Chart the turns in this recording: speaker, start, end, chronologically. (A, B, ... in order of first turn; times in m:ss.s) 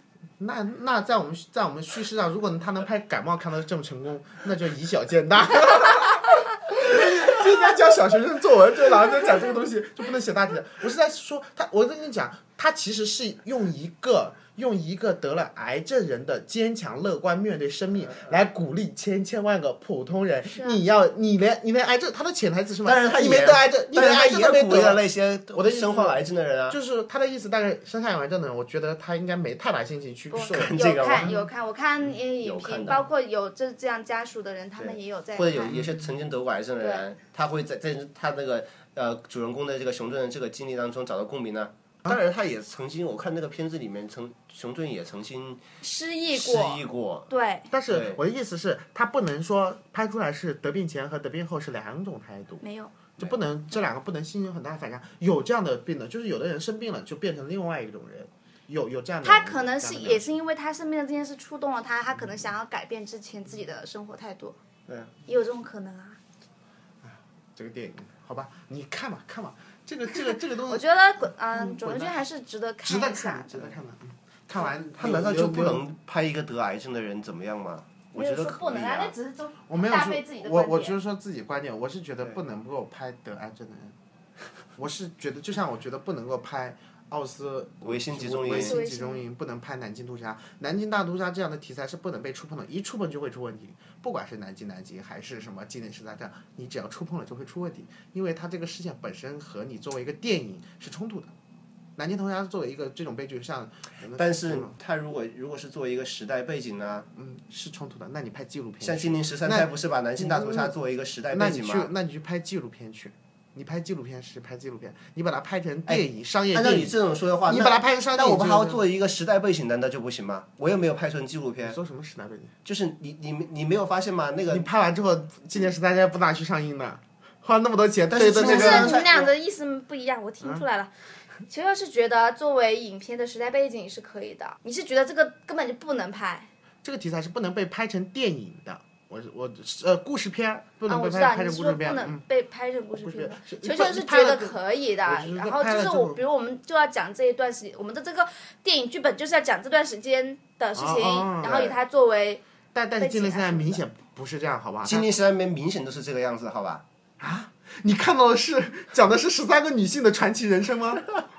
0:00.4-0:31.4 A
0:20.5-0:20.8 B
0:22.8-0:26.8 C
0:30.3-0:35.9 B
0:30.5-0:31.4 C
0:32.2-0:33.1 C
0:34.8-0:45.6 C
0:36.8-0:37.1 B
0:45.8-0:47.7 B
0:46.3-0:47.3 C
0:47.7-0:52.6 A
0:47.9-0:48.2 C
0:52.6-0:53.0 B
0:53.2-1:00.3 A
0:59.2-1:04.6 B
1:04.9-1:05.1 C
1:05.3-1:06.2 B
1:07.0-1:10.8 A
1:10.7-1:13.7 B
1:11.5-1:12.2 A
1:12.8-1:15.8 A
1:15.0-1:19.1 C
1:18.2-1:21.0 B
1:19.7-1:24.0 A
1:24.8-1:41.3 A
1:27.8-1:28.8 C
1:28.6-1:29.2 B
1:42.0-1:44.8 A
1:44.1-1:47.1 C
1:47.1-1:50.8 A
1:48.8-1:51.9 C
1:51.3-1:58.8 A
1:55.9-2:01.8 C
2:01.6-2:02.5 A
2:02.6-2:04.7 C
2:04.5-2:09.1 A
2:08.1-2:09.3 C
2:08.4-2:10.9 B
2:11.5-2:16.5 B
2:16.8-2:22.2 A
2:20.9-2:32.4 B
2:23.0-2:26.2 A
2:30.8-2:31.8 A
2:32.7-2:35.1 A
2:33.0-2:33.8 B
2:34.8-2:36.8 C
2:37.2-2:41.2 A